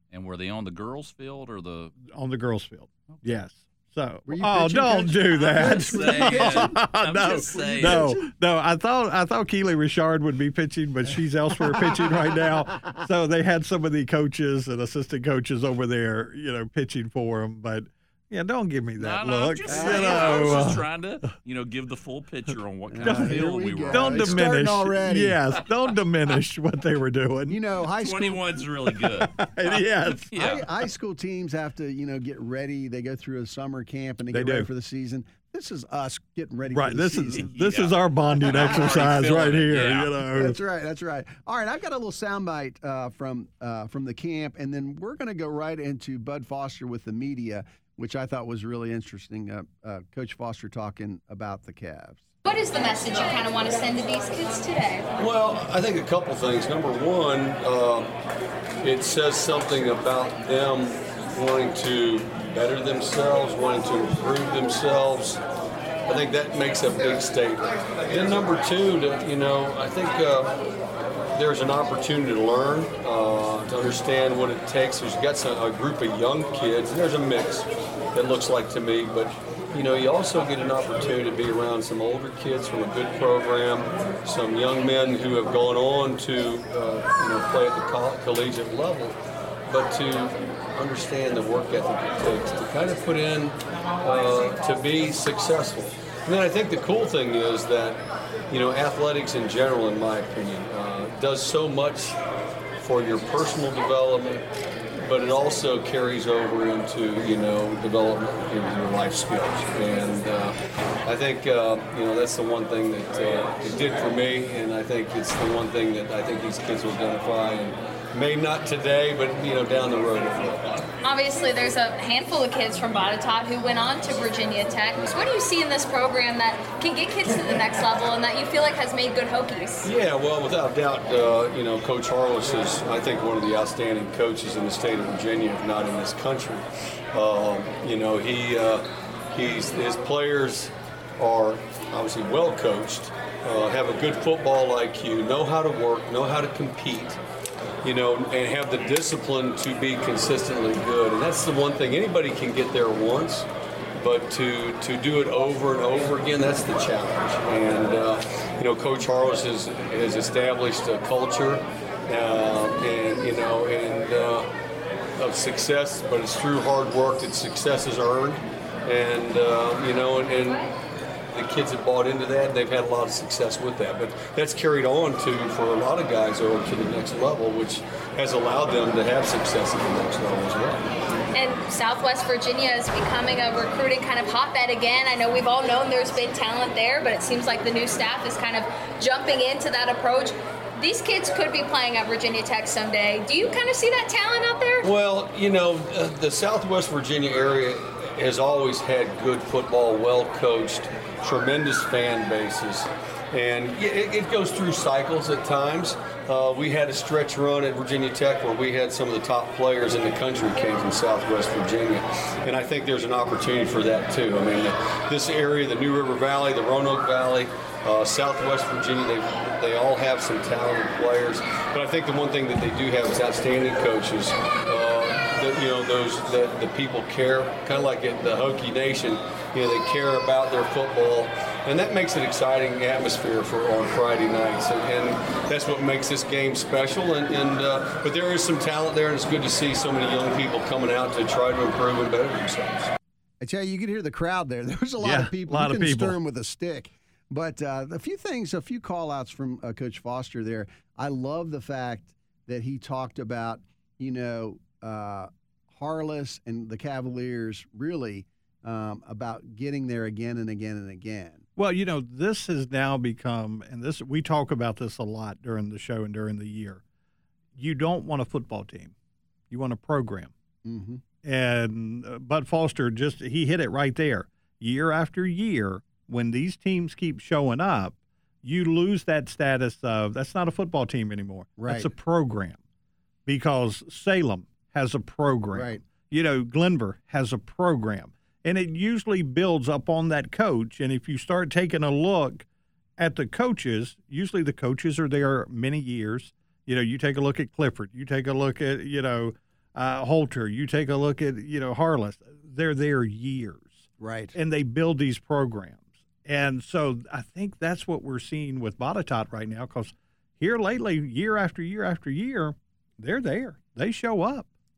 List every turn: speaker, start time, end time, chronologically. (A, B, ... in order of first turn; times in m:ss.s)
0:00.1-0:02.0 A
0:02.0-0:20.8 B
0:04.3-0:06.8 C
0:05.4-0:08.2 A
0:07.4-0:08.3 C
0:11.7-0:12.9 C
0:19.0-0:24.4 A
0:19.7-0:20.6 C
0:22.9-0:25.4 C
0:23.0-0:27.6 B
0:27.5-0:28.4 C
0:28.0-0:30.7 A
0:29.4-0:30.3 B
0:30.4-0:37.5 C
0:34.3-0:34.7 B
0:36.7-0:40.6 B
0:37.4-0:40.1 A
0:40.3-0:52.2 C
0:52.4-0:55.1 D
0:55.2-0:58.2 E
0:58.8-1:05.4 E
1:06.1-1:10.6 E
1:11.3-1:42.2 E
1:42.8-1:44.4 E
1:45.0-2:00.9 E
2:01.0-2:09.9 D
2:09.8-2:27.2 E
2:27.8-2:33.5 E
2:34.0-2:44.5 E
2:45.2-2:50.7 E
2:51.3-3:01.0 E
3:01.3-3:14.9 D
3:14.8-4:02.9 E
4:03.4-4:21.4 C
4:05.0-4:06.2 B
4:21.6-4:26.8 B
4:27.6-4:28.9 B
4:29.5-4:30.3 B
4:30.6-4:31.0 C
4:31.2-4:42.6 B
4:41.6-4:41.9 C
4:43.2-4:52.4 B
4:45.5-4:45.8 C
4:53.0-5:14.5 B
5:04.0-5:04.4 C